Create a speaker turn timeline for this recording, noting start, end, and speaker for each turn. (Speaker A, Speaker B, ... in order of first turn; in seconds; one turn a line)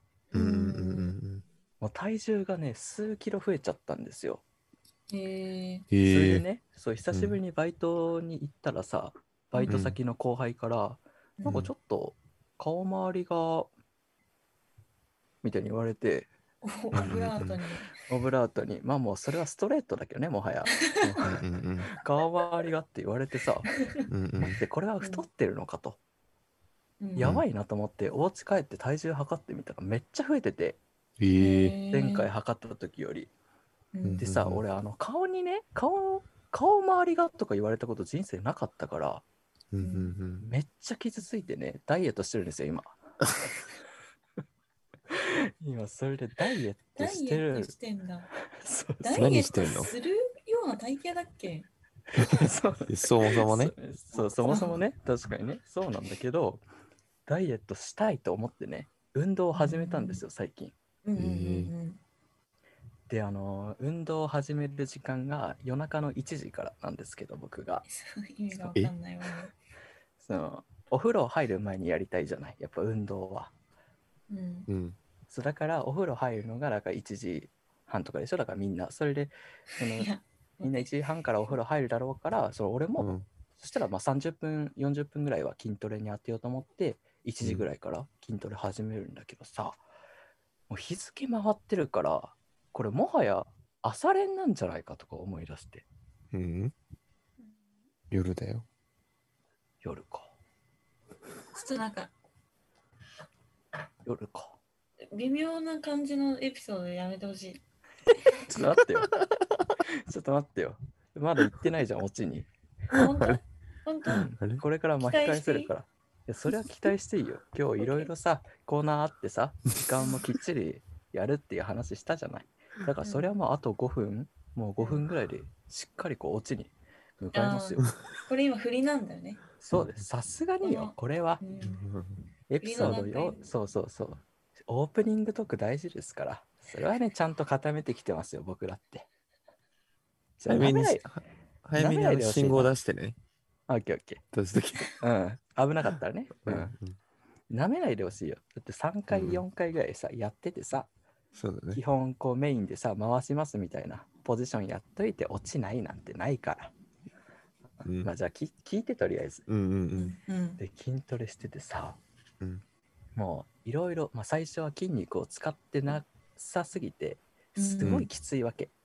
Speaker A: 0.3-1.1
Speaker B: 0.3-1.4
Speaker C: 1.8-4.4
Speaker A: 5.1-5.9
Speaker B: 5.9-6.4
Speaker C: 6.0-13.7
Speaker B: 7.1-7.4
Speaker A: 9.5-9.8
Speaker B: 9.7-10.0
Speaker C: 15.4-16.3
Speaker A: 16.6-17.9
Speaker B: 16.9-17.6
Speaker C: 18.1-21.4
Speaker A: 20.7-21.0
Speaker B: 21.2-21.9
Speaker C: 21.9-23.7
Speaker B: 24.1-24.6
Speaker C: 24.4-26.0
Speaker A: 27.0-27.3
Speaker C: 27.1-30.8
Speaker B: 27.2-27.4
Speaker B: 31.2-31.8
Speaker A: 31.4-32.3
Speaker C: 31.9-33.3
Speaker A: 33.9-34.2
Speaker B: 34.0-34.6
Speaker C: 34.2-39.2
Speaker B: 39.7-40.5
Speaker A: 39.8-40.1
Speaker C: 40.4-43.0
Speaker C: 45.1-47.7
Speaker A: 47.0-48.3
Speaker C: 48.5-49.3
Speaker A: 49.0-51.7
Speaker B: 49.1-49.9
Speaker C: 52.2-56.6
Speaker B: 52.9-53.7
Speaker A: 54.5-54.8
Speaker C: 57.3-60.7
Speaker A: 59.5-60.2
Speaker A: 61.0-62.0
Speaker B: 61.2-61.7
Speaker C: 63.1-67.8
Speaker A: 68.0-69.5
Speaker B: 68.6-68.9
Speaker C: 70.2-73.5
Speaker A: 74.3-74.7
Speaker B: 74.7-75.0
Speaker C: 75.3-89.8
Speaker A: 80.0-80.9
Speaker B: 83.0-83.3
Speaker B: 87.4-87.7
Speaker C: 90.7-95.8
Speaker B: 96.3-96.7
Speaker B: 98.1-98.7
Speaker C: 99.8-100.3
Speaker A: 101.5-102.1
Speaker C: 104.0-104.5
Speaker A: 105.1-107.6
Speaker C: 108.4-109.2
Speaker C: 109.8-112.5
Speaker A: 112.9-114.3
Speaker B: 113.0-113.4
Speaker C: 114.1-127.9
Speaker B: 114.1-114.6
Speaker A: 115.0-115.7
Speaker A: 123.0-123.3
Speaker A: 127.3-129.4
Speaker C: 129.6-131.4
Speaker A: 130.6-131.8
Speaker B: 131.6-132.2
Speaker C: 132.5-139.1
Speaker A: 132.6-133.4
Speaker C: 140.4-141.0
Speaker B: 140.5-143.2
Speaker C: 141.8-142.7
Speaker C: 143.7-144.2
Speaker B: 144.3-144.9
Speaker C: 144.9-146.8
Speaker B: 146.5-146.9
Speaker C: 147.5-150.9
Speaker B: 149.1-149.4
Speaker B: 151.3-151.8
Speaker C: 151.7-156.7
Speaker B: 157.8-158.1
Speaker C: 157.8-159.4
Speaker B: 159.5-160.2
Speaker A: 160.0-160.6
Speaker C: 160.6-162.0
Speaker C: 163.2-168.7
Speaker A: 167.6-168.1
Speaker B: 167.8-168.1